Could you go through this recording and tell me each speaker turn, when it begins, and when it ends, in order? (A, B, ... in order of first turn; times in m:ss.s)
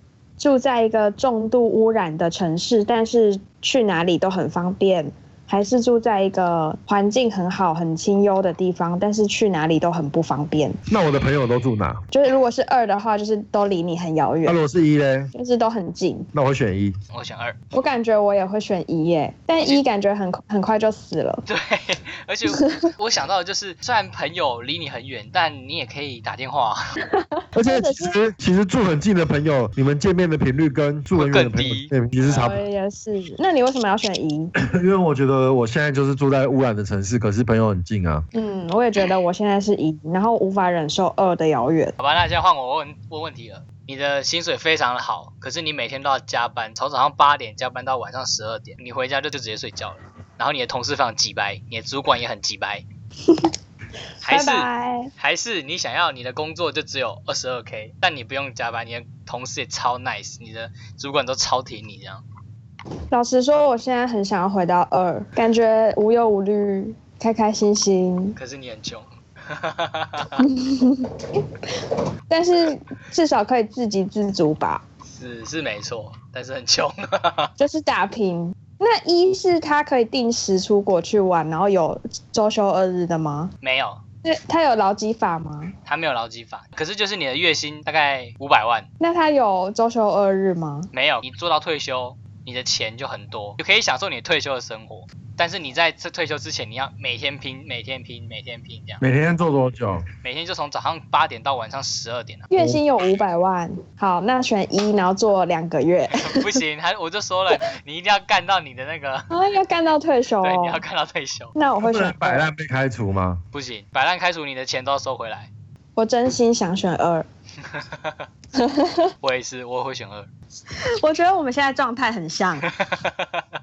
0:00.4-0:10.8 A
0:10.9-0:12.0 B
0:12.1-0:14.6 A
0:14.4-0:15.3 B
0:15.3-0:16.3 A
0:16.3-0:16.9 B
0:17.1-0:17.6 C
0:17.7-0:21.4 A
0:21.4-0:26.8 C
0:27.1-0:28.2 A
0:27.5-0:32.6 B
0:31.1-0:31.9 C
0:32.2-0:34.5 A
0:34.6-0:38.2 B
0:38.3-0:41.9 A
0:42.0-0:52.8 C
0:54.2-0:55.1 A
0:54.2-1:02.2 C
1:03.1-1:08.4 A
1:08.4-1:10.5 C
1:10.4-1:11.6 A
1:12.3-1:14.8 A
1:15.1-1:17.5 C
1:17.6-1:23.5 A
1:23.6-1:24.0 C
1:24.2-1:25.7 A
1:25.8-1:28.8 C
1:29.0-1:30.9 A
1:30.9-1:39.0 C
1:39.0-1:40.0 B
1:40.2-1:42.5 C
1:42.5-1:46.5 A
1:42.6-1:42.8 B
1:46.1-1:49.3 C
1:49.3-1:50.8 A
1:50.4-1:51.5 C
1:51.6-1:52.5 A
1:51.8-1:53.4 B
1:53.5-1:55.5 C
1:56.0-1:57.2 A
1:57.7-1:58.2 C
1:58.5-1:59.1 A
1:59.2-2:00.3 C
2:01.0-2:02.7 A
2:02.7-2:03.4 C